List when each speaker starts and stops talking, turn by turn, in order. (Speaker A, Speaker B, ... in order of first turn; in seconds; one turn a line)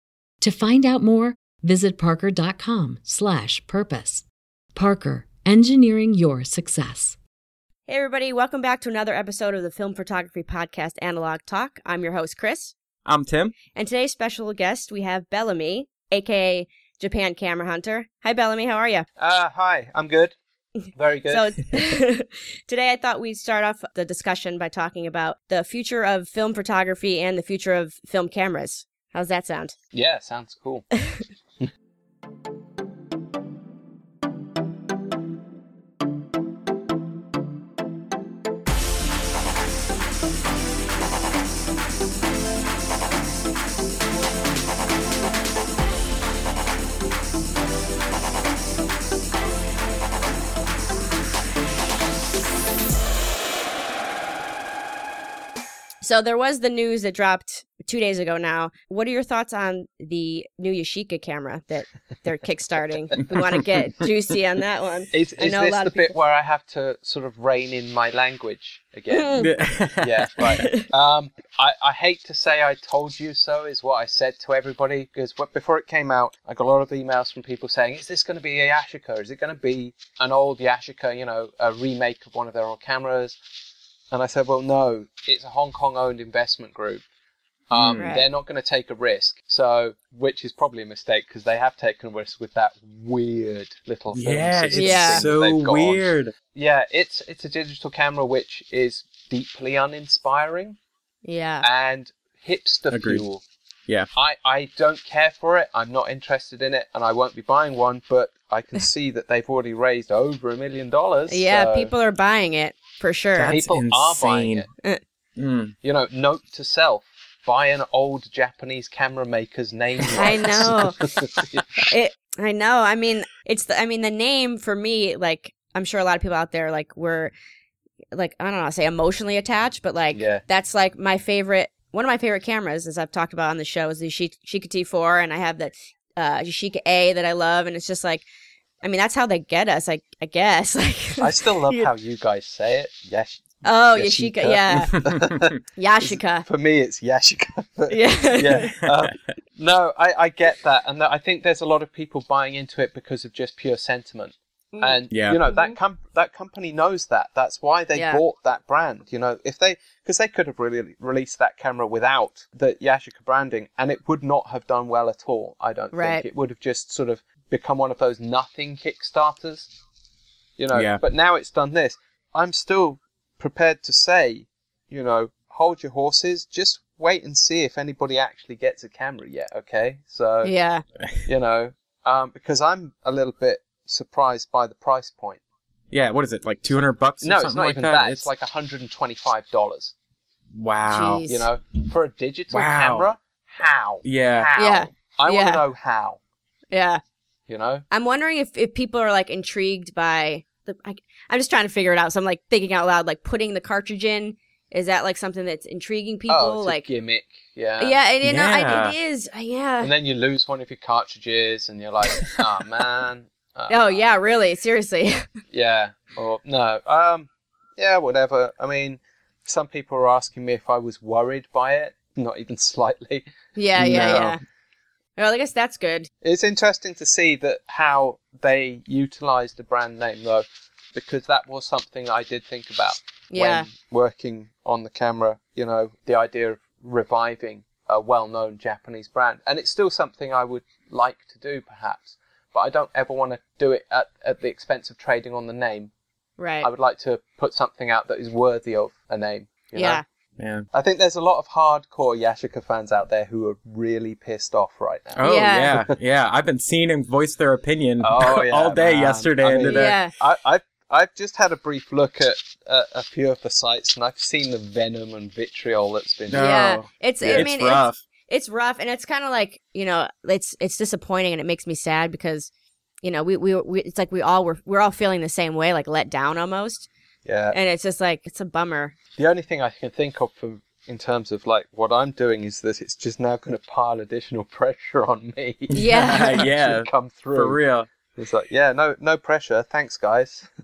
Speaker A: 0.4-7.2
Speaker B: 7.9-12.7
Speaker C: 13.1-13.6
Speaker B: 13.7-19.1
Speaker D: 19.2-20.4
Speaker D: 20.9-21.5
Speaker B: 21.3-29.7
Speaker D: 29.9-30.9
Speaker B: 56.0-66.2
Speaker D: 65.1-83.4
Speaker B: 69.1-69.5
Speaker C: 69.3-70.5
Speaker B: 70.4-70.9
Speaker D: 84.1-87.0
Speaker D: 87.7-100.8
Speaker C: 87.7-88.2
Speaker B: 88.0-88.2
Speaker C: 94.1-96.3
Speaker B: 94.7-95.3
Speaker B: 101.2-101.7
Speaker D: 101.6-103.4
Speaker C: 102.9-103.2
Speaker D: 104.1-111.9
Speaker B: 111.3-113.5
Speaker C: 113.3-114.7
Speaker D: 113.5-114.7
Speaker C: 115.4-115.8
Speaker D: 115.8-121.8
Speaker B: 120.1-121.0
Speaker B: 121.8-127.3
Speaker B: 128.1-138.3
Speaker D: 130.1-130.4
Speaker B: 138.8-141.9
Speaker D: 141.2-169.7
Speaker B: 143.6-145.0
Speaker C: 144.8-145.5
Speaker B: 145.8-146.4
Speaker B: 147.9-148.7
Speaker C: 148.8-149.1
Speaker C: 155.1-155.4
Speaker B: 155.5-155.8
Speaker B: 157.9-158.2
Speaker B: 165.9-166.2
Speaker D: 170.6-180.5
Speaker C: 170.7-171.0
Speaker B: 180.4-180.8
Speaker D: 181.2-185.4
Speaker C: 185.9-188.3
Speaker D: 187.2-189.9
Speaker C: 190.5-191.2
Speaker B: 190.9-191.5
Speaker D: 191.3-196.2
Speaker C: 192.5-193.1
Speaker C: 194.0-194.5
Speaker B: 194.6-195.6
Speaker B: 196.7-197.0
Speaker D: 197.5-197.8
Speaker B: 197.9-206.8
Speaker D: 206.3-208.0
Speaker B: 207.8-209.9
Speaker C: 208.2-208.9
Speaker D: 209.8-214.0
Speaker B: 213.7-215.3
Speaker D: 215.5-224.3
Speaker B: 223.6-224.4
Speaker C: 223.8-224.3
Speaker B: 225.2-226.1
Speaker D: 226.2-245.9
Speaker B: 233.3-233.7
Speaker B: 246.4-246.7
Speaker D: 246.6-250.0
Speaker B: 249.7-250.0
Speaker C: 250.4-250.7
Speaker D: 250.7-256.0
Speaker C: 255.2-259.9
Speaker B: 255.2-255.7
Speaker D: 258.0-266.6
Speaker B: 259.7-260.1
Speaker C: 266.3-268.0
Speaker B: 266.3-272.5
Speaker D: 267.2-267.5
Speaker B: 273.0-276.9
Speaker D: 277.2-277.6
Speaker B: 277.5-278.9
Speaker D: 279.2-287.6
Speaker B: 285.7-286.5
Speaker C: 285.7-287.9
Speaker D: 288.1-290.5